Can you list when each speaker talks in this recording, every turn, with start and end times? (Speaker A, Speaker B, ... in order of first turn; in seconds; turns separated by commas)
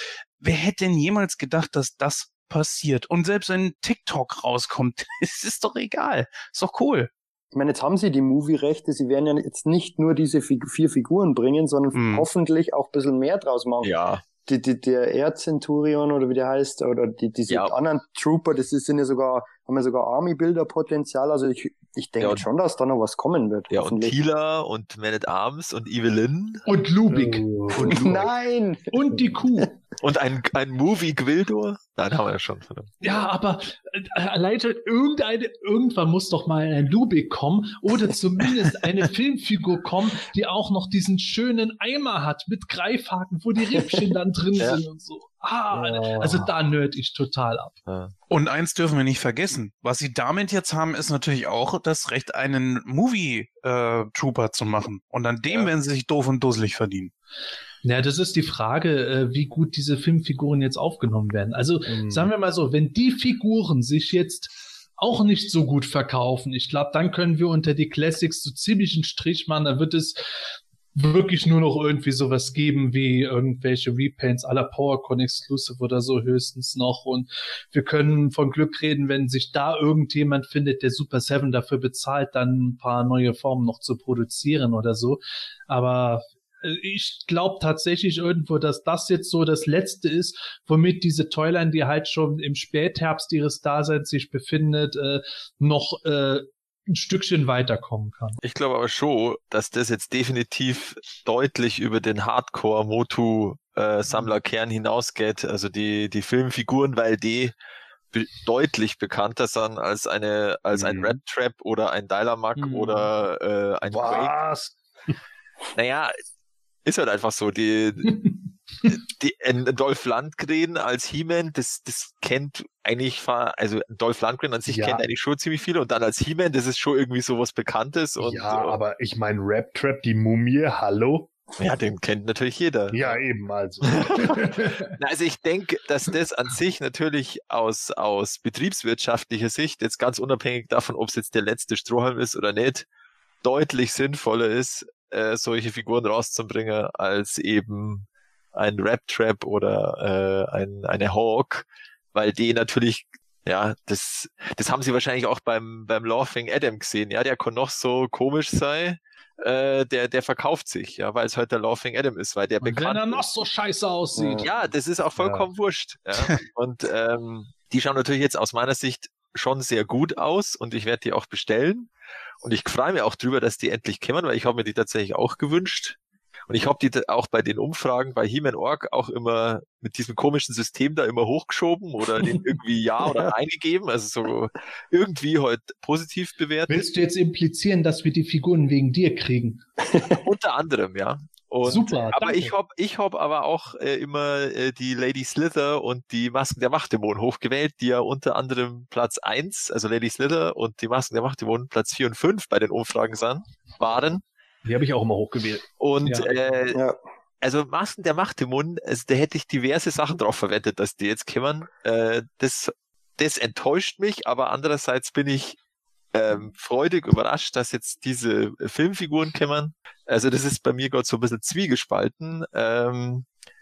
Speaker A: 0.4-7.1, Speaker B: 7.5-13.9, Speaker A: 11.9-12.2, Speaker C: 13.8-14.2, Speaker B: 14.4-24.2, Speaker C: 23.7-26.6, Speaker D: 26.7-27.9, Speaker E: 27.1-28.1, Speaker B: 27.8-28.9, Speaker D: 28.9-29.7, Speaker C: 30.0-32.9, Speaker D: 33.0-47.8, Speaker E: 45.7-46.5, Speaker C: 47.9-48.1, Speaker A: 48.3-57.1, Speaker D: 57.8-98.4, Speaker E: 61.9-62.3, Speaker C: 98.4-107.5, Speaker C: 108.1-114.4, Speaker E: 110.7-111.2, Speaker D: 112.5-113.1, Speaker E: 113.9-115.2, Speaker C: 115.7-116.1, Speaker C: 116.8-118.2, Speaker C: 118.9-128.8, Speaker E: 124.7-125.0, Speaker E: 128.2-131.4, Speaker C: 131.6-133.2, Speaker E: 132.9-134.9, Speaker C: 133.8-142.8, Speaker C: 143.4-163.2, Speaker D: 162.6-164.4, Speaker B: 164.1-164.6, Speaker C: 164.4-186.8, Speaker E: 165.2-165.5, Speaker D: 186.7-189.6, Speaker C: 190.2-204.2, Speaker D: 191.6-192.5, Speaker E: 204.6-206.2, Speaker C: 205.8-206.8, Speaker B: 206.7-207.0, Speaker C: 207.4-215.6, Speaker C: 216.1-223.3